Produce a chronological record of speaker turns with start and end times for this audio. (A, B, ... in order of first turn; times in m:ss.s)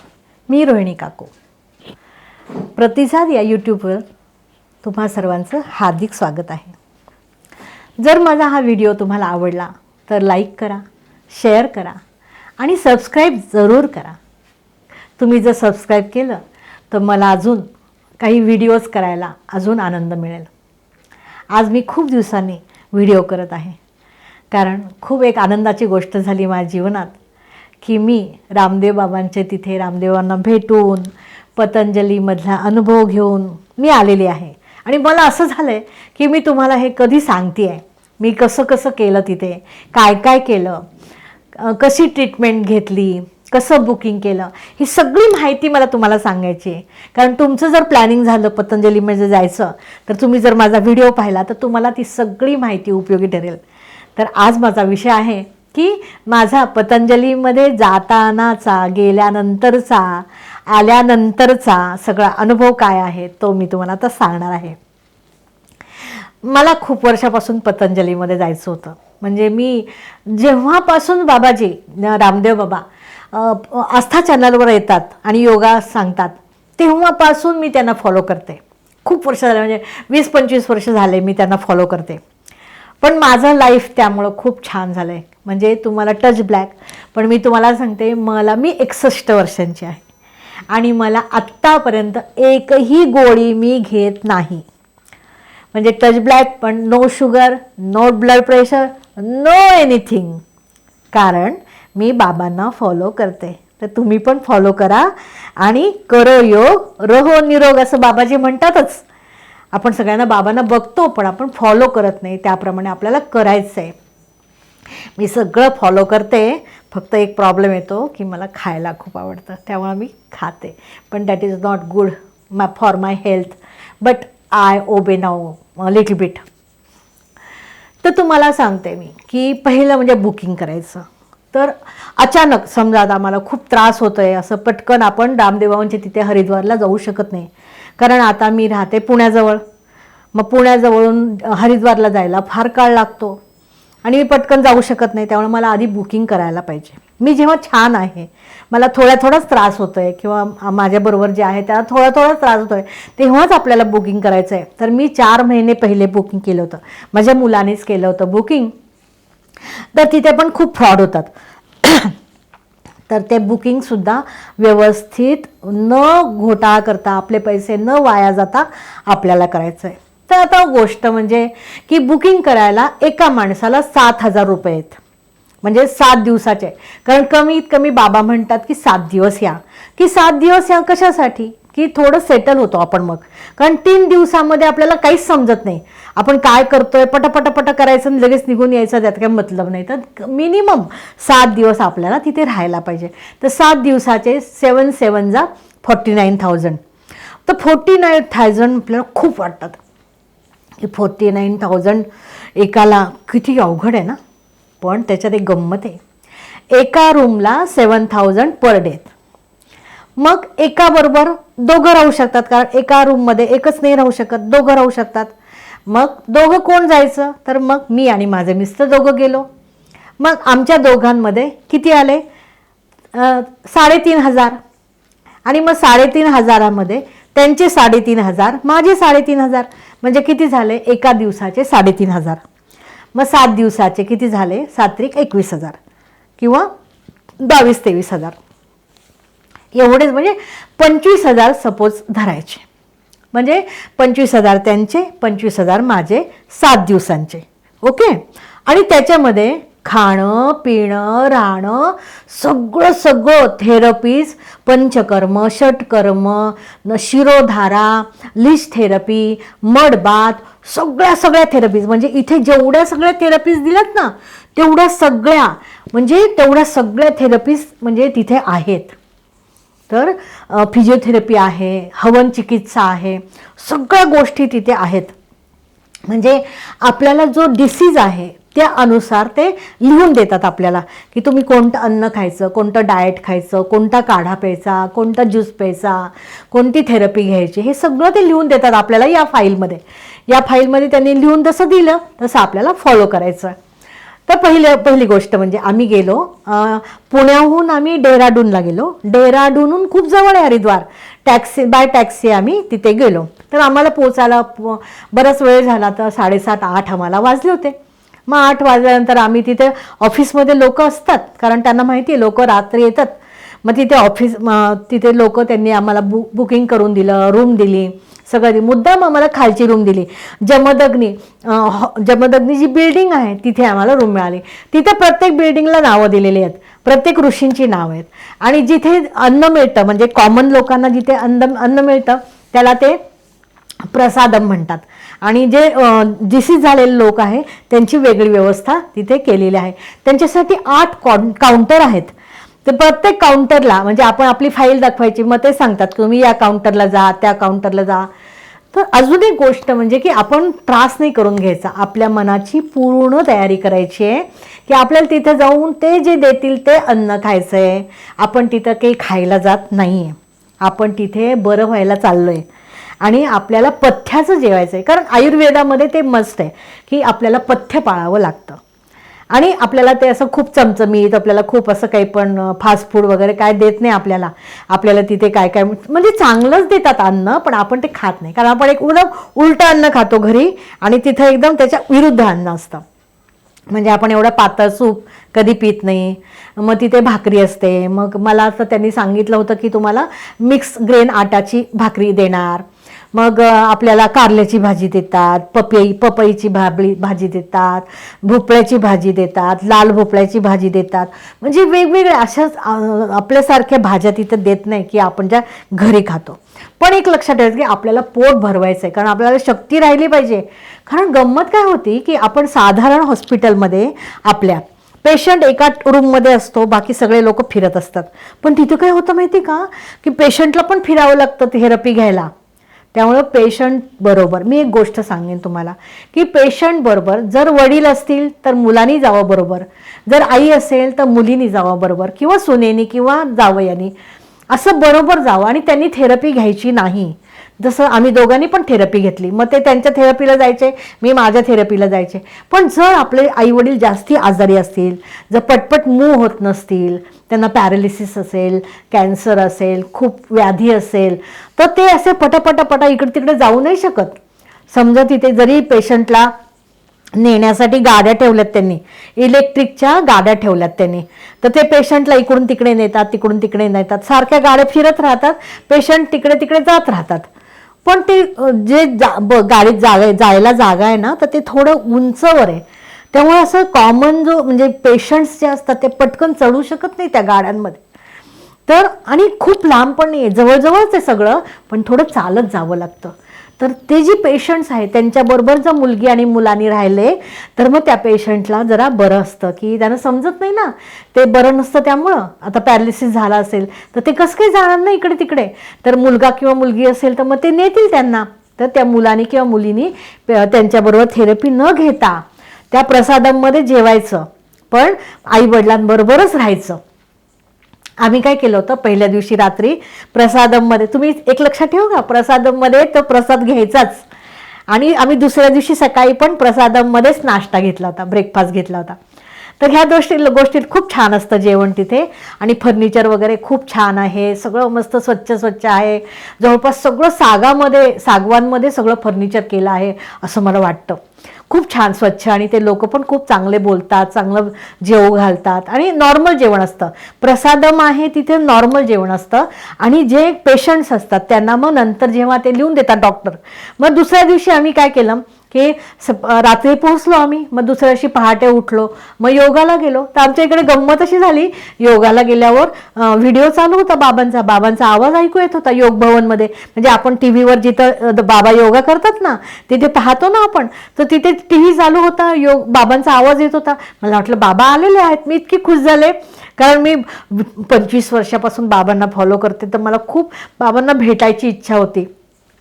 0:00.5-0:01.3 A
0:02.7-0:04.0 A
0:04.8-0:06.8 A
0:08.0-0:12.0 A
0:12.6-0:14.2 A
0:15.2-0:17.7 A
0:18.2-0:20.5 A
0:21.5-0:23.8 A
0:24.5-0:27.1 A
0:27.8-0:40.8 A
0:41.5-0:53.6 A
0:54.2-1:04.8 A
1:06.4-1:22.2 A
1:23.0-1:30.0 A
1:30.7-1:34.6 A
1:35.7-1:40.4 A
1:41.1-1:49.0 A
1:49.7-1:53.9 A
1:55.2-2:06.4 A
2:08.0-2:19.6 A
2:20.3-2:23.4 A
2:24.0-2:38.7 A
2:39.9-2:41.3 A
2:41.8-2:42.1 A
2:43.1-2:55.0 A
2:55.6-3:16.8 A
3:17.4-3:19.8 A
3:20.8-3:24.2 A
3:24.8-3:26.0 A
3:26.7-3:29.1 A
3:30.2-3:35.3 A
3:35.9-3:39.5 A
3:40.2-3:42.2 A
3:43.1-3:44.6 A
3:45.4-3:52.4 A
3:53.1-3:55.8 A
3:56.4-3:56.7 A
3:57.4-3:58.4 A
3:59.7-4:02.6 A
4:03.3-4:29.0 A
4:29.9-4:35.1 A
4:36.1-4:53.5 A
4:54.3-5:07.7 A
5:08.3-5:33.0 A
5:33.8-5:42.1 A
5:42.6-5:48.1 A
5:48.7-6:02.4 A
6:03.0-6:08.6 A
6:09.3-6:22.8 A
6:23.7-7:02.3 A
7:02.9-7:13.9 A
7:14.5-7:34.2 A
7:34.7-7:36.3 A
7:37.2-7:47.3 A
7:47.8-7:57.8 A
7:58.7-8:26.8 A
8:28.0-8:34.0 A
8:34.7-8:39.0 A
8:39.6-9:32.1 A